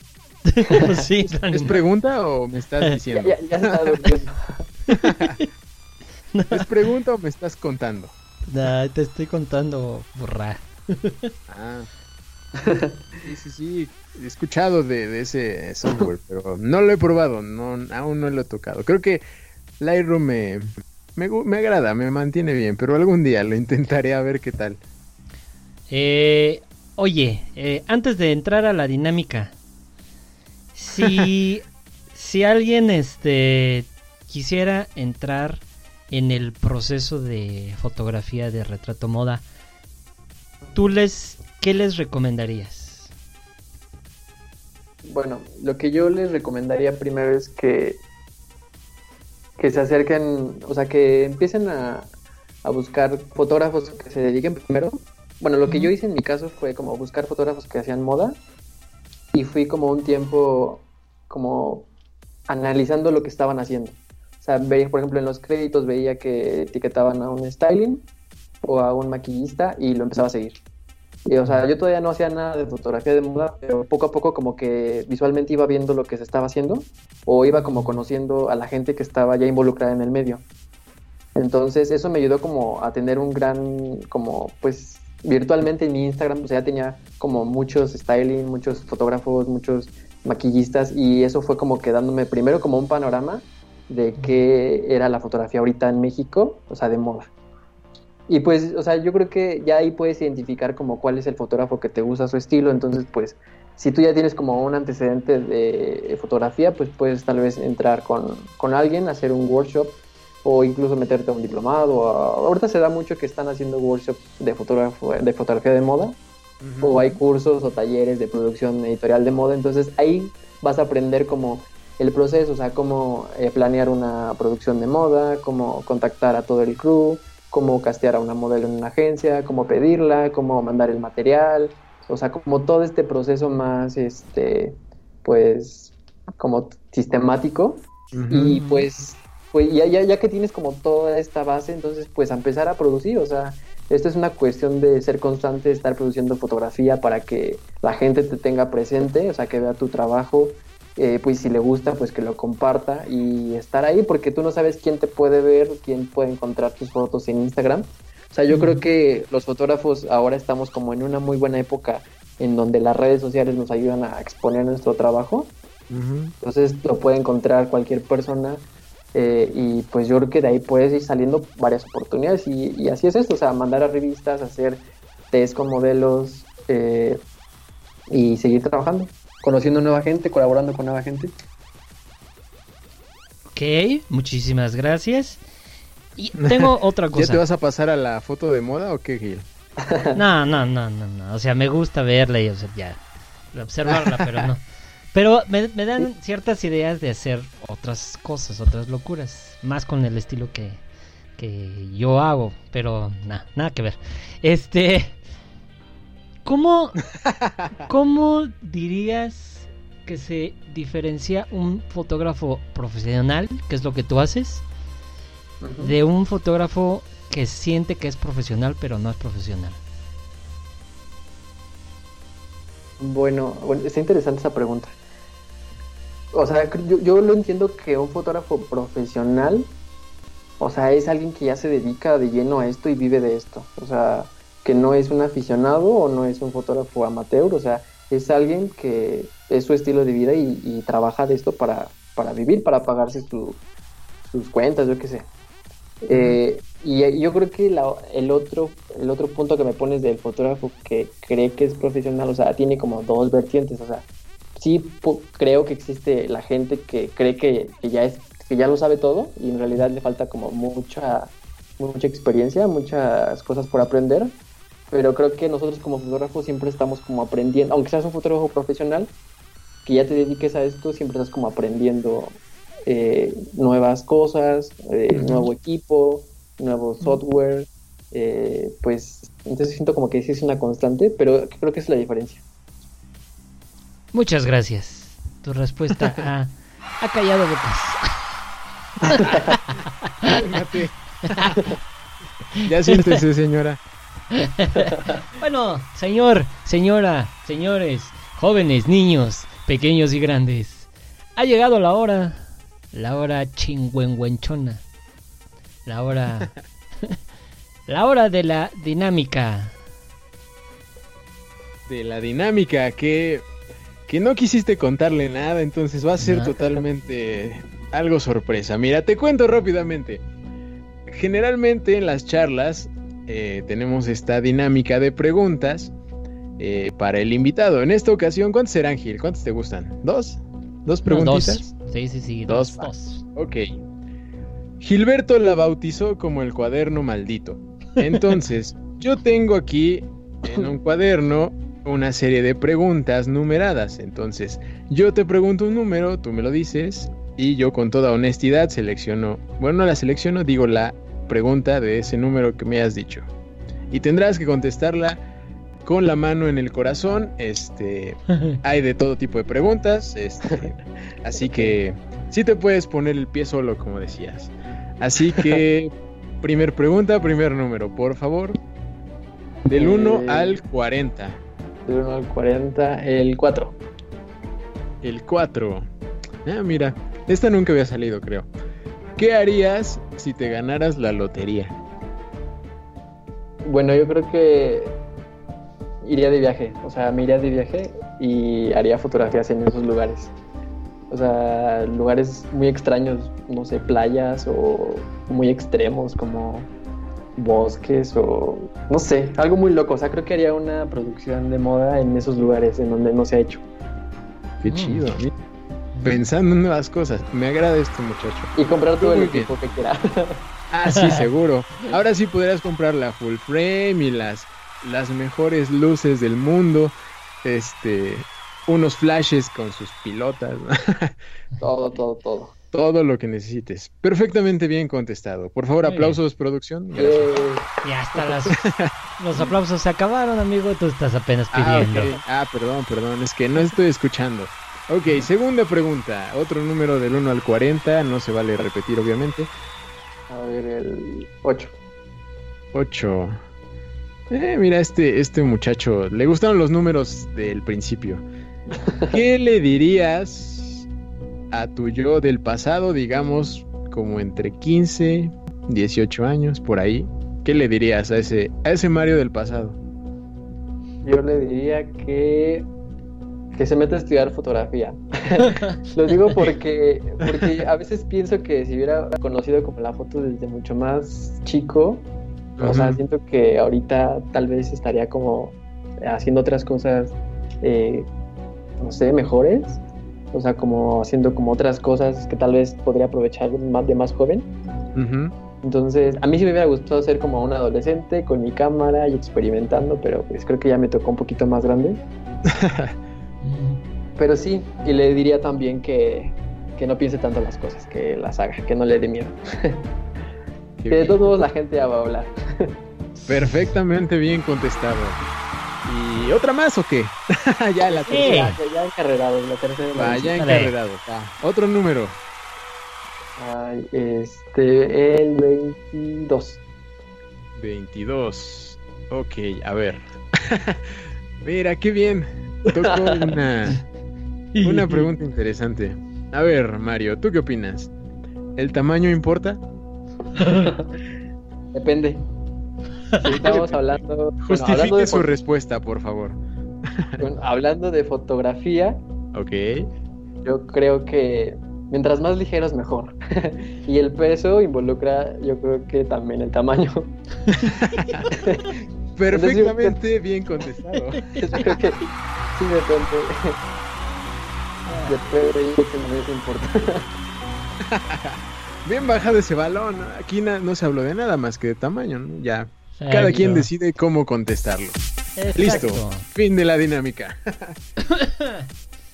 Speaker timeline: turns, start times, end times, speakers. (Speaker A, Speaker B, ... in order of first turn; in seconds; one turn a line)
Speaker A: 0.5-1.7
Speaker B: 1.5-4.0
Speaker C: 3.1-4.7
Speaker A: 4.9-5.5
Speaker B: 5.0-5.3
Speaker A: 6.3-6.7
Speaker B: 6.5-8.1
Speaker A: 8.5-11.3
Speaker B: 11.5-11.9
Speaker C: 12.6-12.9
Speaker B: 13.2-19.2
Speaker B: 19.8-24.8
Speaker A: 25.9-29.5
Speaker A: 30.7-39.4
Speaker B: 31.0-31.2
Speaker A: 40.7-43.1
Speaker C: 45.0-48.0
Speaker C: 49.6-52.1
Speaker C: 52.6-58.4
Speaker A: 55.6-55.9
Speaker C: 59.3-61.9
Speaker C: 62.5-68.0
Speaker C: 68.6-70.6
Speaker C: 71.3-80.4
Speaker A: 77.7-78.0
Speaker C: 81.3-97.3
Speaker C: 98.3-116.2
Speaker B: 116.6-117.0
Speaker C: 116.8-165.5
Speaker B: 138.1-138.6
Speaker A: 138.4-138.8
Speaker A: 158.5-158.8
Speaker B: 165.9-166.3
Speaker C: 166.4-177.2
Speaker C: 178.1-181.3
Speaker A: 183.5-185.4
Speaker A: 186.2-187.4
Speaker B: 186.4-189.4
Speaker C: 189.9-190.2
Speaker A: 190.1-193.0
Speaker A: 193.5-194.6
Speaker A: 195.1-200.8
Speaker A: 201.4-205.2
Speaker A: 206.4-207.0
Speaker B: 207.2-207.7
Speaker A: 207.8-214.6
Speaker C: 215.6-215.9
Speaker A: 215.8-219.8
Speaker C: 223.0-224.9
Speaker C: 226.3-229.7
Speaker C: 230.6-243.6
Speaker C: 244.2-245.3
Speaker C: 246.0-264.3
Speaker B: 246.1-246.4
Speaker C: 264.9-269.1
Speaker C: 269.8-282.4
Speaker B: 275.1-275.5
Speaker A: 284.1-288.0
Speaker A: 289.1-289.7
Speaker C: 289.1-289.4
Speaker B: 290.3-291.6
Speaker A: 292.6-293.2
Speaker B: 292.6-293.8
Speaker A: 294.4-304.8
Speaker A: 305.9-306.5
Speaker A: 307.9-309.8
Speaker B: 311.9-313.4
Speaker B: 314.1-320.2
Speaker A: 316.2-316.8
Speaker B: 321.1-325.9
Speaker B: 326.6-331.6
Speaker A: 331.1-333.2
Speaker B: 332.5-333.8
Speaker B: 334.8-353.3
Speaker B: 353.9-355.2
Speaker B: 355.8-368.6
Speaker C: 365.3-365.6
Speaker C: 369.6-370.6
Speaker B: 369.7-371.4
Speaker C: 371.8-373.8
Speaker B: 375.0-375.9
Speaker B: 376.4-378.5
Speaker B: 379.2-381.8
Speaker C: 383.6-385.0
Speaker C: 386.0-390.3
Speaker C: 391.1-396.7
Speaker C: 397.4-403.6
Speaker B: 404.6-405.3
Speaker A: 404.7-405.1
Speaker B: 406.0-409.5
Speaker C: 408.5-410.4
Speaker B: 410.7-421.1
Speaker A: 410.9-411.2
Speaker C: 421.6-422.5
Speaker B: 422.7-427.3
Speaker A: 425.8-426.2
Speaker C: 426.9-428.5
Speaker A: 427.8-428.5
Speaker B: 428.5-428.9
Speaker A: 429.2-432.1
Speaker B: 431.5-439.5
Speaker C: 431.9-432.2
Speaker C: 440.3-441.7
Speaker B: 442.7-443.4
Speaker B: 444.3-448.2
Speaker C: 448.8-449.2
Speaker B: 449.1-450.9
Speaker B: 451.5-459.8
Speaker C: 461.0-462.7
Speaker C: 463.5-472.1
Speaker B: 472.6-473.0
Speaker C: 472.6-478.1
Speaker C: 478.8-479.8
Speaker C: 480.3-484.5
Speaker B: 484.9-485.3
Speaker C: 485.6-492.0
Speaker B: 492.5-492.9
Speaker A: 493.4-493.8
Speaker C: 494.2-499.8
Speaker B: 500.8-501.2
Speaker C: 500.9-502.8
Speaker B: 503.2-505.2
Speaker A: 503.3-503.7
Speaker B: 505.8-508.5
Speaker C: 507.8-510.5
Speaker A: 508.1-508.6
Speaker B: 509.9-512.2
Speaker A: 510.4-510.7
Speaker C: 513.4-516.6
Speaker B: 517.5-523.8
Speaker C: 522.8-523.3
Speaker A: 524.5-525.1
Speaker B: 524.6-527.9
Speaker B: 528.5-529.6
Speaker C: 530.4-530.9
Speaker C: 531.7-532.2
Speaker B: 533.2-536.4
Speaker C: 533.2-535.3
Speaker C: 537.2-539.0
Speaker B: 539.3-539.9
Speaker C: 540.4-547.1
Speaker B: 547.5-548.3
Speaker A: 547.9-548.4
Speaker C: 548.3-548.8
Speaker B: 549.2-551.8
Speaker C: 549.3-550.0
Speaker A: 551.3-551.7
Speaker C: 551.3-553.6
Speaker C: 555.0-557.0
Speaker B: 557.8-565.0
Speaker A: 563.0-563.7
Speaker A: 565.4-566.2
Speaker B: 565.5-567.8
Speaker A: 568.1-568.6